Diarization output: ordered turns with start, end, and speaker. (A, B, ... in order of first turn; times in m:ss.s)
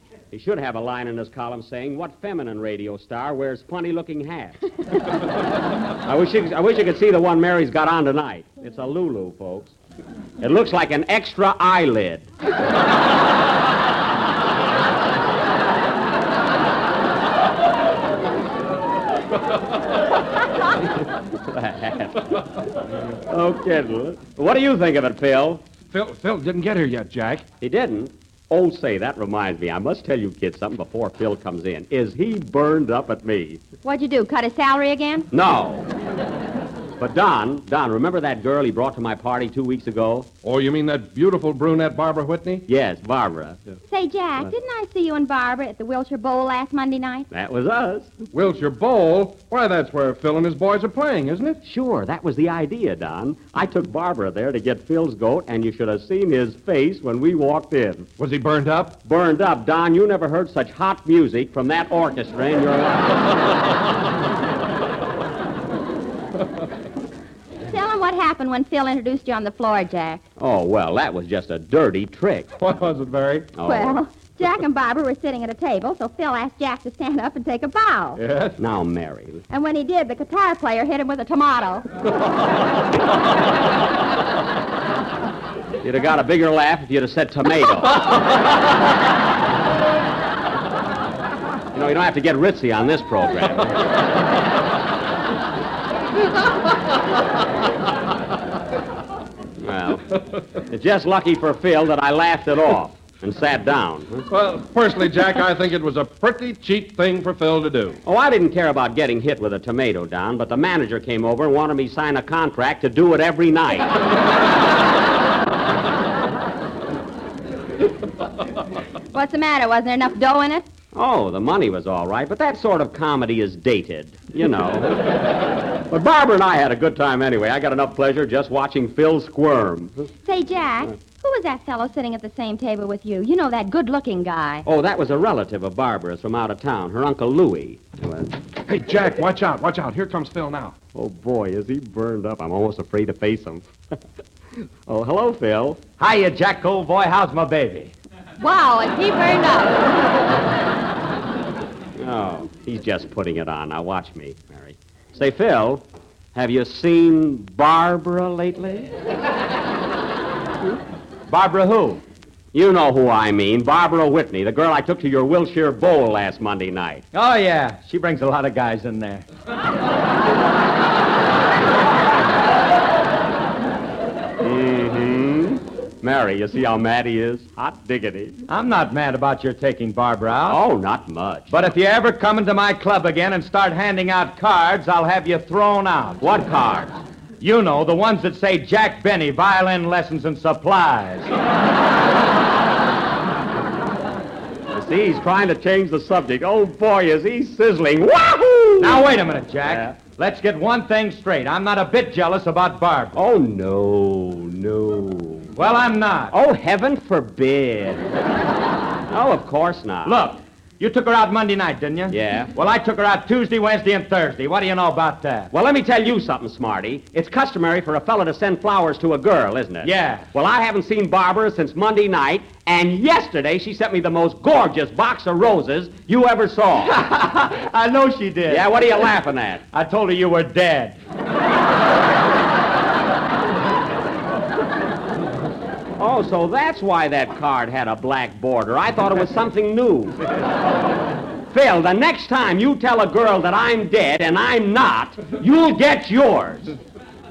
0:00.3-0:04.6 A
0:06.0-0:09.8 A
0:10.4-0:12.3 A
0:20.8-0:22.3 A
0:23.1-0:25.6 A
0:25.9-0:27.5 B
0:27.6-0:33.6 A
0:33.8-0:35.3 C
0:35.3-0:35.9 A
0:37.0-0:40.3 A
0:40.4-0:42.6 B
0:42.7-0:43.6 A
0:43.9-0:47.3 C
0:47.3-0:48.1 A
0:48.3-0:51.6 B
0:51.6-0:58.1 A
0:58.2-0:59.0 B
0:59.0-1:03.3 A
1:07.6-1:10.2 C
1:10.4-1:12.6 A
1:12.6-1:13.5 B
1:13.6-1:14.0 A
1:13.6-1:18.2 C
1:18.2-1:18.6 B
1:18.6-1:19.4 A
1:19.5-1:21.9 C
1:25.8-1:28.2 A
1:31.7-1:33.7 A
1:39.6-1:44.2 A
1:44.3-1:48.0 B
1:48.0-1:54.0 A
1:59.1-2:00.7 C
2:00.9-2:05.0 A
2:05.9-2:10.1 A
2:10.2-2:14.6 C
2:14.6-2:18.3 A
2:18.7-2:20.8 B
2:21.0-2:23.7 A
2:24.9-2:25.8 A
2:26.0-2:27.9 D
2:28.4-2:29.8 C
2:32.0-2:38.9 A
2:41.3-2:42.0 D
2:42.5-2:47.0 A
2:47.1-2:49.2 D
2:54.4-2:58.4 A
2:58.5-3:00.6 D
3:00.4-3:01.6 A
3:01.5-3:06.2 D
3:06.2-3:07.0 A
3:07.4-3:11.3 D
3:14.7-3:19.1 A
3:18.8-3:23.1 D
3:19.6-3:20.0 A
3:23.1-3:25.6 A
3:25.6-3:26.3 D
3:26.3-3:28.1 A
3:29.1-3:30.2 A
3:30.1-3:35.5 D
3:32.1-3:32.5 A
3:35.5-3:46.9 A
3:39.8-3:40.2 D
3:47.1-3:48.7 D
3:48.5-3:49.7 A
3:49.7-3:51.0 D
3:56.0-4:00.2 A
4:01.5-4:06.8 A